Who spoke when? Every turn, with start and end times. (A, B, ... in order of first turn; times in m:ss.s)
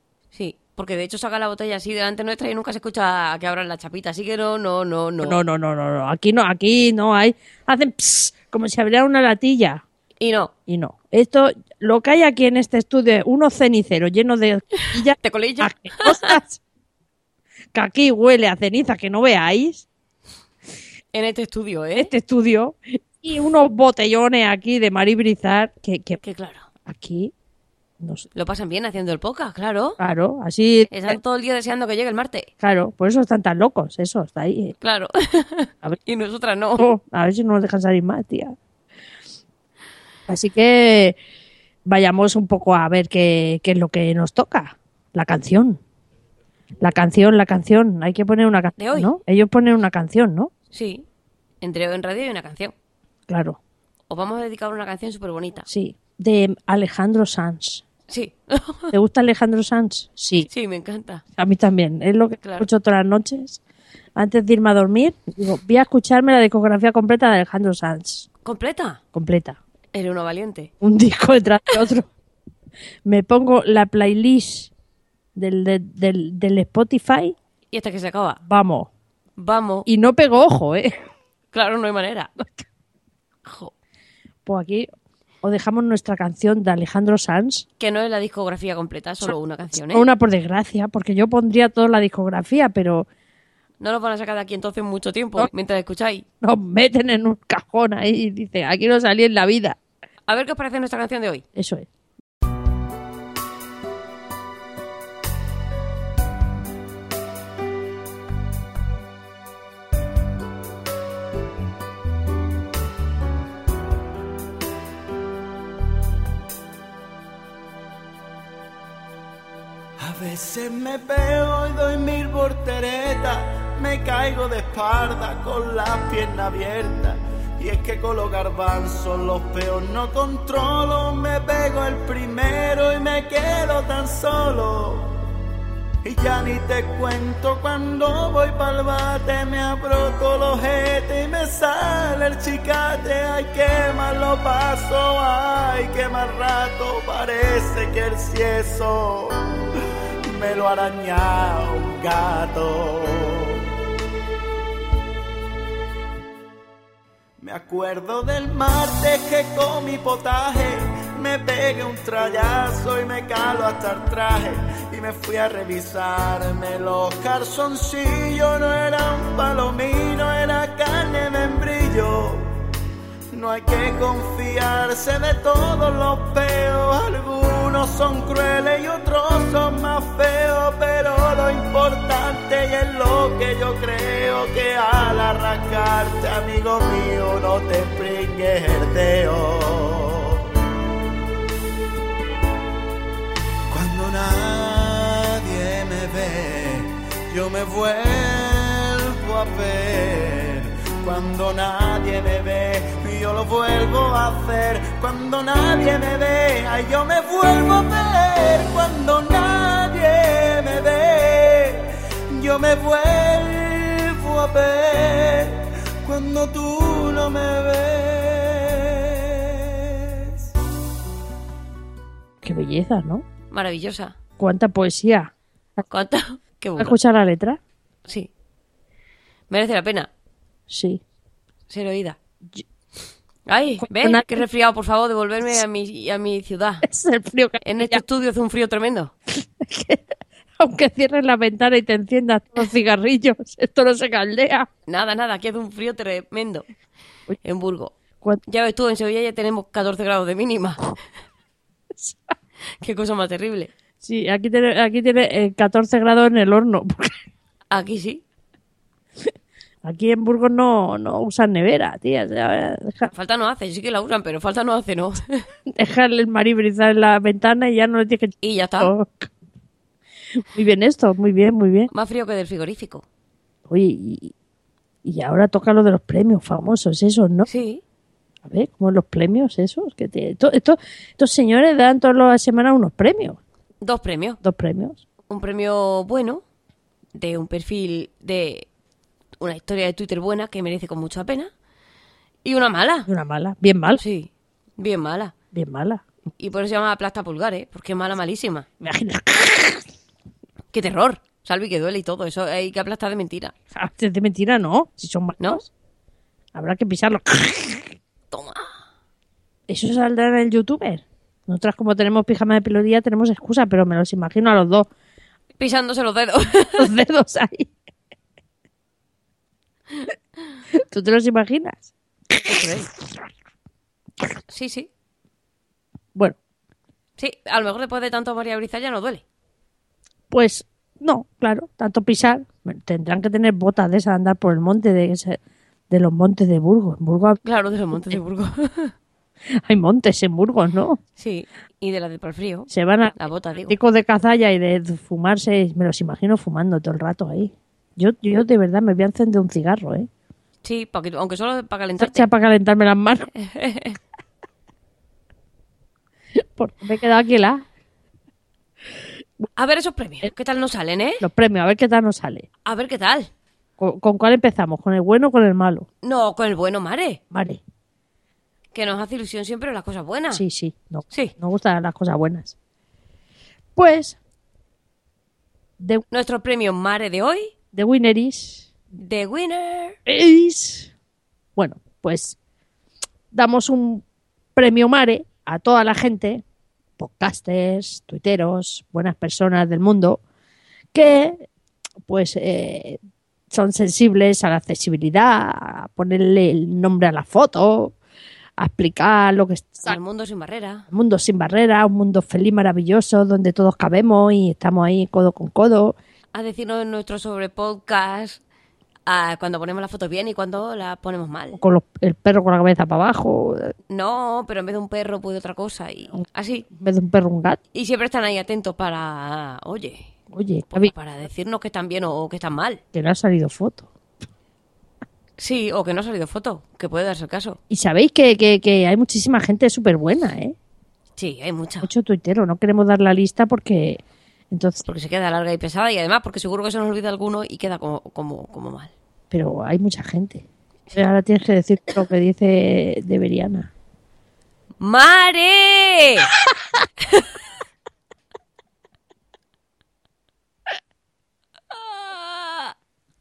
0:00.3-0:05.4 A
0:05.2-0:09.8 B
0:10.2-0:10.5 A
0:10.7-0:16.6 B
0:14.9-0:16.4 A
0:17.7-0:19.9 B
0:21.1-0:22.1 A
0:22.0-0:26.2 B
0:26.2-0:26.7 A
0:26.9-0:27.3 B
0:28.0-0:28.3 B
0:28.3-0:30.0 A
0:30.0-0:31.2 B
0:30.9-0:32.5 A
0:32.6-0:34.8 B
0:34.8-0:36.9 A
0:36.8-0:38.6 B
0:40.3-0:41.2 B
0:41.9-0:45.8 B
0:46.8-0:50.5 B
0:48.8-0:49.2 A
0:50.7-0:51.0 A
0:51.6-0:52.7 A
0:53.3-0:53.6 B
0:54.1-0:55.7 A
0:55.7-0:57.8 B
0:58.1-0:58.9 A
0:58.9-1:00.5 B
1:00.4-1:01.2 A
1:01.4-1:03.6 B
1:02.4-1:02.7 A
1:04.2-1:08.3 B
1:08.4-1:09.0 A
1:09.1-1:09.6 B
1:09.9-1:10.7 A
1:10.8-1:12.1 B
1:13.0-1:14.7 B
1:15.4-1:17.4 B
1:17.7-1:18.4 A
1:18.5-1:18.9 B
1:19.4-1:19.9 A
1:19.9-1:21.0 B
1:21.5-1:22.3 A
1:23.4-1:23.7 A
1:24.4-1:24.9 B
1:25.4-1:27.7 B
1:27.8-1:30.1 A
1:29.2-1:33.1 B
1:33.8-1:36.2 A
1:36.4-1:39.8 B
1:40.3-1:41.4 A
1:41.6-1:41.9 B
2:00.0-2:15.2 C
2:16.0-2:29.4 C
2:30.3-2:33.7 C
2:37.4-2:52.5 C
2:53.3-3:10.5 C
3:13.7-3:40.4 C
3:42.4-3:43.3 B
3:43.5-3:44.2 A
3:44.4-3:45.8 B
3:45.9-3:47.0 A
3:46.8-3:47.6 B
3:49.5-3:50.1 A
3:50.7-3:51.0 B
3:51.7-3:52.2 A
3:53.5-3:56.8 A
3:53.8-3:54.4 B
3:56.8-3:58.0 B
3:57.6-3:59.1 A
3:59.3-4:04.7 B
4:04.9-4:06.7 A
4:07.4-4:07.9 A
4:08.5-4:11.0 A
4:12.0-4:12.3 B
4:12.8-4:13.7 A
4:14.0-4:17.2 B
4:17.7-4:18.2 A
4:19.8-4:23.1 B
4:23.1-4:25.4 A
4:25.7-4:29.3 B
4:28.4-4:28.9 A
4:30.4-4:31.9 B
4:31.9-4:33.0 A
4:33.7-4:34.3 B
4:35.0-4:37.5 B
4:37.5-4:37.8 A
4:38.4-4:43.4 B
4:43.8-4:44.4 A
4:44.4-4:45.0 B
4:45.3-4:46.4 A
4:47.2-4:48.7 A
4:49.4-4:51.5 A
4:52.4-4:53.1 A
4:53.1-4:54.0 B
4:54.0-4:55.3 A
4:55.5-4:56.0 B
4:56.4-4:58.7 A
4:58.8-4:59.9 B
5:00.7-5:03.5 A
5:03.7-5:05.7 B
5:06.5-5:08.0 B
5:08.3-5:08.7 A
5:09.7-5:14.9 B
5:15.6-5:16.9 A
5:16.8-5:17.7 B
5:20.7-5:22.8 B
5:22.5-5:22.9 A
5:24.5-5:24.9 A
5:27.2-5:29.2 A
5:30.3-5:35.4 B
5:35.9-5:37.4 B
5:37.4-5:38.9 A
5:39.6-5:41.0 B
5:41.2-5:43.8 A
5:42.7-5:43.2 B
5:43.7-5:50.1 B
5:50.6-5:52.3 A
5:52.0-5:53.3 B
5:53.4-5:54.0 A
5:56.4-5:57.6 B
5:59.6-6:01.2 A
6:01.2-6:02.5 B
6:02.7-6:03.3 A
6:03.8-6:05.9 B
6:06.0-6:07.2 A
6:07.3-6:07.6 B
6:08.7-6:10.4 A
6:10.3-6:12.6 B
6:13.8-6:14.2 B
6:16.1-6:17.5 A
6:17.7-6:18.7 B
6:18.9-6:20.0 A
6:20.1-6:20.9 B
6:21.6-6:22.4 B
6:23.3-6:24.0 B
6:24.6-6:26.4 B
6:27.0-6:30.2 B
6:30.9-6:31.5 B
6:32.1-6:33.0 B
6:33.5-6:38.0 B
6:38.6-6:40.0 B
6:39.8-6:40.9 A
6:40.9-6:46.0 B
6:46.3-6:48.4 A
6:49.1-6:51.6 A
6:51.6-6:53.7 B
6:53.9-6:56.7 A
6:56.7-6:57.6 B
6:57.7-7:00.1 A
7:00.3-7:00.9 B
7:00.7-7:02.8 A
7:02.9-7:03.9 B
7:05.4-7:07.6 A
7:07.7-7:10.6 B
7:11.2-7:11.9 A
7:11.8-7:14.9 B
7:14.9-7:18.9 A
7:19.3-7:23.7 B
7:24.8-7:26.3 A
7:31.7-7:32.7 A